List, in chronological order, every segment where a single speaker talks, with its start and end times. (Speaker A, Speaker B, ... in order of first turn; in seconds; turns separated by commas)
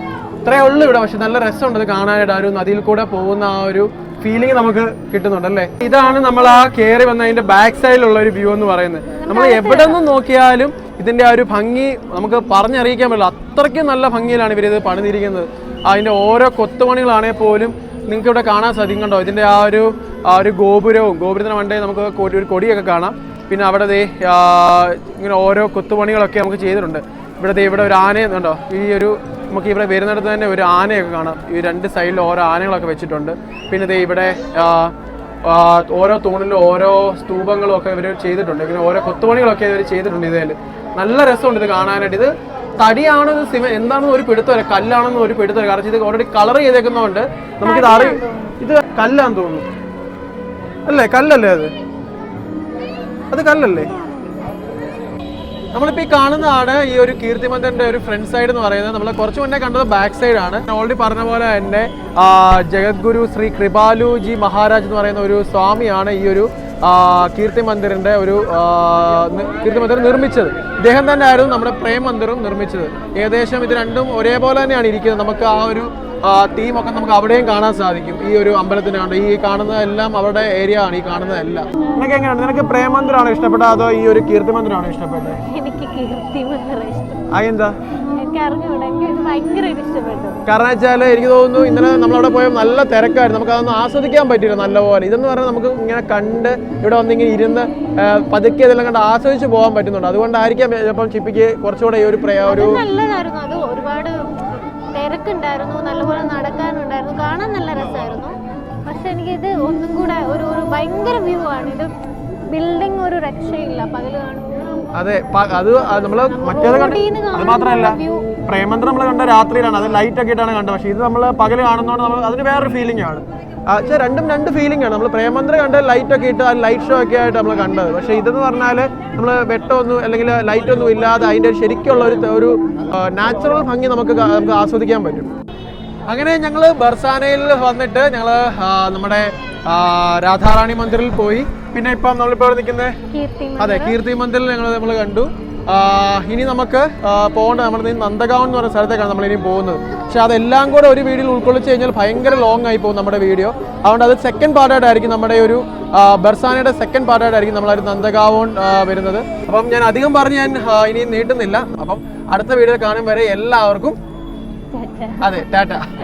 Speaker A: 0.4-49.7, Speaker B: 9.2-10.0, Speaker B: 47.6-48.6, Speaker A: 50.9-51.7, Speaker A: 53.3-53.9, Speaker A: 55.7-85.4, Speaker B: 85.5-87.3, Speaker A: 87.3-87.7, Speaker B: 88.2-90.4, Speaker A: 90.5-102.8, Speaker B: 102.5-104.2, Speaker B: 105.0-111.9, Speaker B: 112.5-114.7, Speaker A: 115.0-135.3, Speaker B: 116.3-118.3, Speaker A: 136.1-143.0, Speaker B: 143.1-143.9, Speaker A: 143.6-163.9, Speaker B: 164.7-165.5, Speaker A: 165.2-165.9